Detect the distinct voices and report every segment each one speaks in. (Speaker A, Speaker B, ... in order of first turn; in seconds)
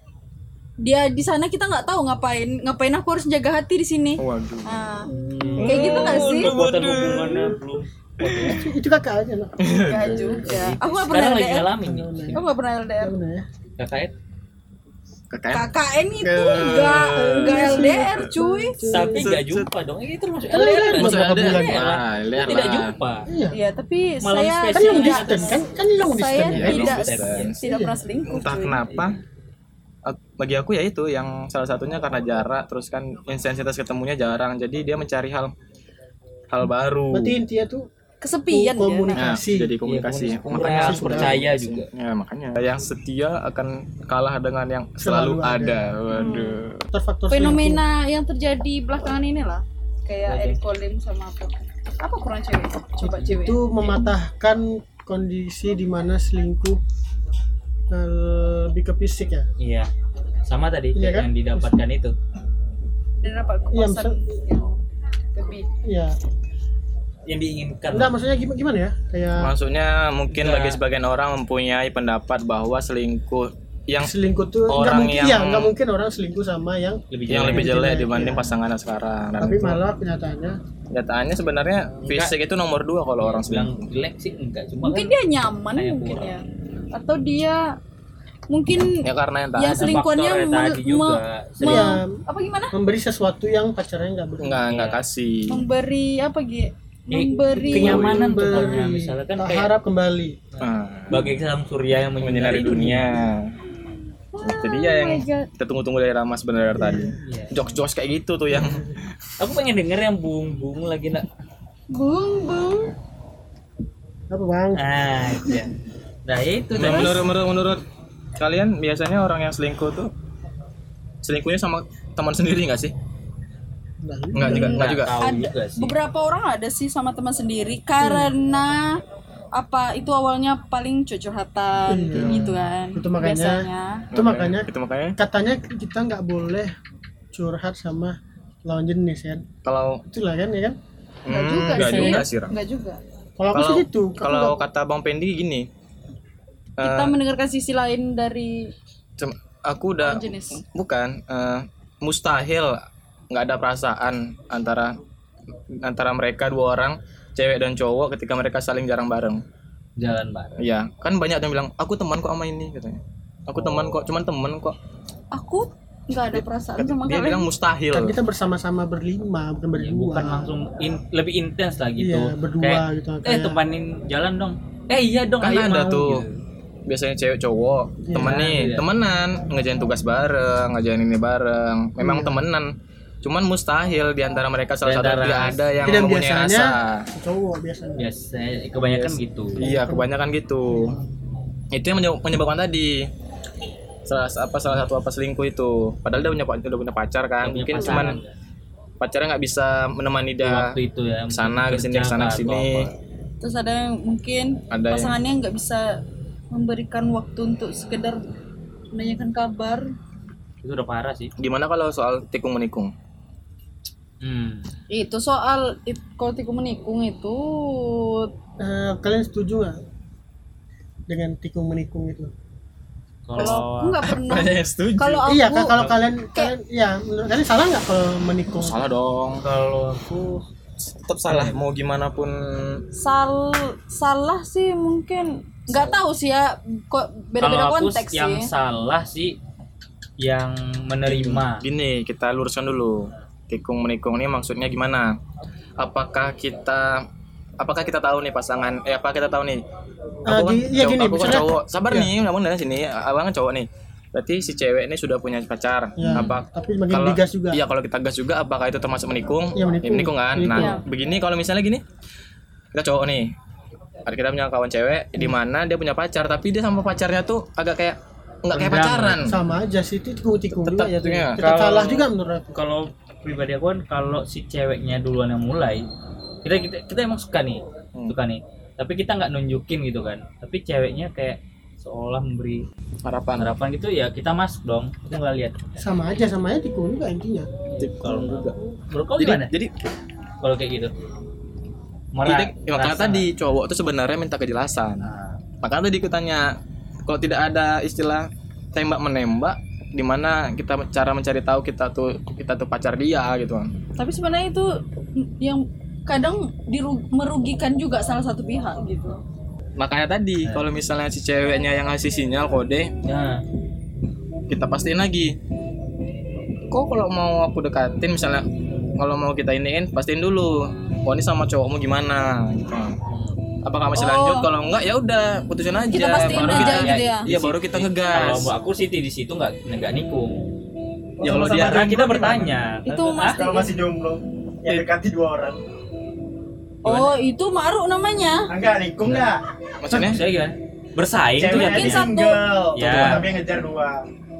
Speaker A: 0.8-5.1, 5.6-6.5, 9.8-11.7, 12.3-13.1, 15.5-18.8, 23.5-25.5, 26.0-28.8, 38.2-39.2, 46.1-46.6, 47.3-54.1, 63.2-64.8, 65.3-65.7, 84.8-87.8, 88.5-92.7, 95.5-98.7, 104.3-105.5, 111.9-112.9, 116.8-117.2, 124.6-129.0, 129.5-134.1, 141.3-143.0, 146.8-148.7, 150.0-150.6, 165.3-167.5, 197.8-198.1, 203.4-206.0, 206.5-208.2, 208.9-209.9, 214.9-218.3, 223.3-225.7, 233.0-238.5, 260.6-260.8, 304.0-309.2, 323.9-324.4, 325.9-327.2, 332.8-333.7, 336.8-338.5, 341.5-342.4
Speaker B: 4.2-4.8, 5.6-7.5, 8.2-8.6, 9.6-10.4, 15.3-18.3, 19.1-19.7, 20.9-23.0, 26.4-27.6, 28.2-29.2, 30.0-35.5, 36.5-37.4, 39.1-46.9, 69.4-74.1, 74.7-75.7, 77.3-79.8, 80.9-83.9, 89.0-90.0, 94.4-95.6, 100.6-101.3, 102.2-103.5, 104.4-109.3, 116.7-117.8, 118.4-120.1, 121.2-122.9, 124.3-125.2, 132.1-132.5, 134.1-135.2, 139.6-140.0, 141.2-142.5, 143.5-145.7, 146.8-147.2, 149.2-152.8, 153.3-155.0, 155.7-159.4, 160.6-164.8, 166.3-168.1, 175.4-176.2, 176.9-187.1, 188.8-191.0, 191.7-193.1, 194.1-198.2, 199.0-200.7, 201.3-202.9, 204.7-205.1, 211.4-212.9, 223.4-225.3, 228.6-229.4, 230.8-232.8, 241.1-245.2, 245.8-247.0, 247.6-249.6, 250.3-261.8, 262.7-263.3, 264.1-269.3, 270.6-271.4, 283.0-283.5, 287.8-288.6, 289.2-289.7, 292.2-295.1, 295.6-296.5, 297.1-303.7, 309.8-312.9, 314.5-315.3, 316.7-323.0, 323.6-328.5, 331.2-332.1, 339.8-340.2, 342.8-343.2
Speaker C: 5.1-8.6, 10.4-12.4, 13.8-14.1, 18.9-23.2, 24.2-25.6, 26.6-27.5, 39.8-41.9, 50.2-50.6, 59.6-59.9, 60.5-62.1, 67.3-68.1, 70.3-70.8, 77.1-77.7, 82.0-82.3, 83.2-85.1, 85.7-86.3, 89.7-92.0, 94.7-95.0, 97.1-99.7, 100.5-103.1, 107.2-107.6, 109.4-111.3, 114.8-115.7, 116.2-117.2, 124.4-125.9, 160.0-160.6, 169.8-176.3, 178.2-178.8, 184.8-185.7, 188.0-189.6, 197.4-198.3, 200.4-202.9, 210.6-211.3, 214.2-214.7, 223.3-224.0, 225.7-226.0, 229.4-230.4, 231.3-231.6, 237.4-239.3, 240.2-241.6, 268.5-269.3, 271.4-275.9, 276.4-282.7, 283.4-285.6, 287.7-289.5, 290.4-290.9, 292.1-293.2, 313.0-313.4, 323.1-323.4, 326.2-330.4, 331.3-333.4, 336.9-337.1, 339.9-342.1, 342.8-343.2
Speaker D: 8.3-10.4, 11.8-12.4, 13.0-13.4, 17.4-19.3, 20.5-21.8, 23.3-23.5, 24.7-26.9, 27.6-28.0, 37.1-37.9, 38.5-39.7, 40.6-41.4, 45.0-45.8, 46.9-47.8, 53.0-56.8, 57.9-59.5, 60.9-61.7, 63.7-64.2, 65.8-66.2, 67.9-69.5, 74.0-78.5, 79.4-80.6, 91.6-92.2, 92.7-94.6, 97.6-100.3, 106.8-107.1, 108.6-108.9, 114.3-114.8, 124.0-124.8, 128.0-128.3, 131.9-136.7, 137.3-139.4, 140.1-140.8, 141.7-142.2, 143.4-144.6, 167.9-170.5, 172.0-173.6, 178.0-178.4, 182.0-182.4, 185.8-188.1, 189.6-190.1, 190.7-191.0, 218.6-219.8, 221.1-222.3, 225.3-228.8, 250.3-252.1, 256.0-257.6, 259.6-260.8, 269.2-272.6, 285.8-287.5
Speaker E: 331.2-332.5, 333.3-335.6, 338.5-339.4, 341.4-344.0